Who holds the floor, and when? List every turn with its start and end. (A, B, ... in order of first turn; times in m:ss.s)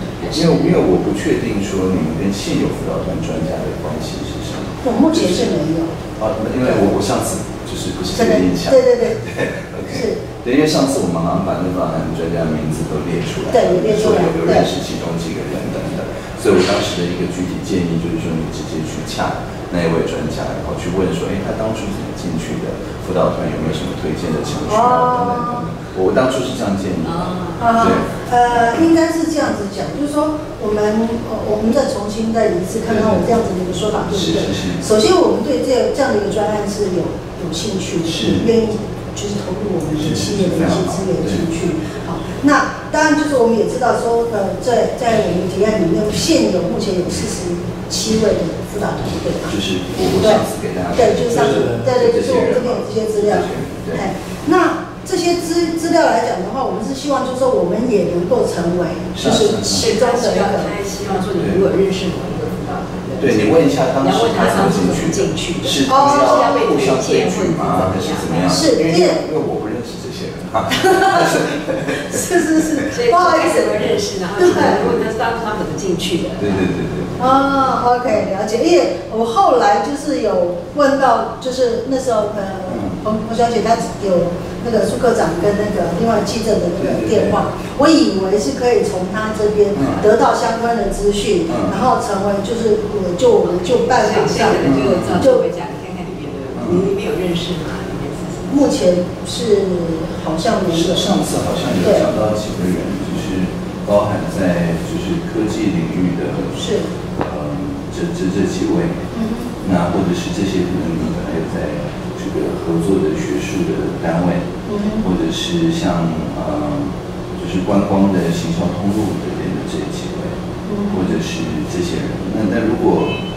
0:00.2-0:00.7 A
0:00.3-0:05.5 B
0:04.8-0:05.9 C
0:06.2-0:28.1 B
0:08.1-0:09.2 C
0:09.9-0:10.2 C
0:13.5-0:14.6 C
0:24.7-0:25.6 C
0:27.0-0:27.9 A
0:27.6-0:49.5 C
0:32.9-0:33.2 B
0:34.1-0:34.8 B
0:38.1-0:38.4 B
0:39.9-0:41.4 B
0:49.5-0:54.0 B
0:50.9-1:00.7 C
0:59.1-0:59.9 B
0:59.7-1:08.6 A
1:03.2-1:12.9 B
1:05.9-1:06.5 C
1:08.5-1:09.2 C
1:10.8-1:11.5 C
1:12.1-1:13.8 C
1:12.9-1:16.6 A
1:14.4-1:14.9 C
1:14.4-1:15.0 B
1:16.4-1:17.2 B
1:17.2-1:35.4 C
1:22.7-1:23.0 B
1:26.8-1:27.4 B
1:29.7-1:30.0 B
1:31.5-1:31.7 B
1:33.9-1:38.6 A
1:34.6-1:35.2 B
1:36.6-1:36.9 B
1:38.5-1:41.0 C
1:40.7-1:46.6 B
1:46.5-1:46.9 C
1:47.2-1:49.0 B
1:49.1-1:49.5 C
1:49.6-1:54.4 B
1:54.6-1:55.0 C
1:55.0-2:00.3 B
2:00.6-2:01.1 C
2:00.9-2:03.1 B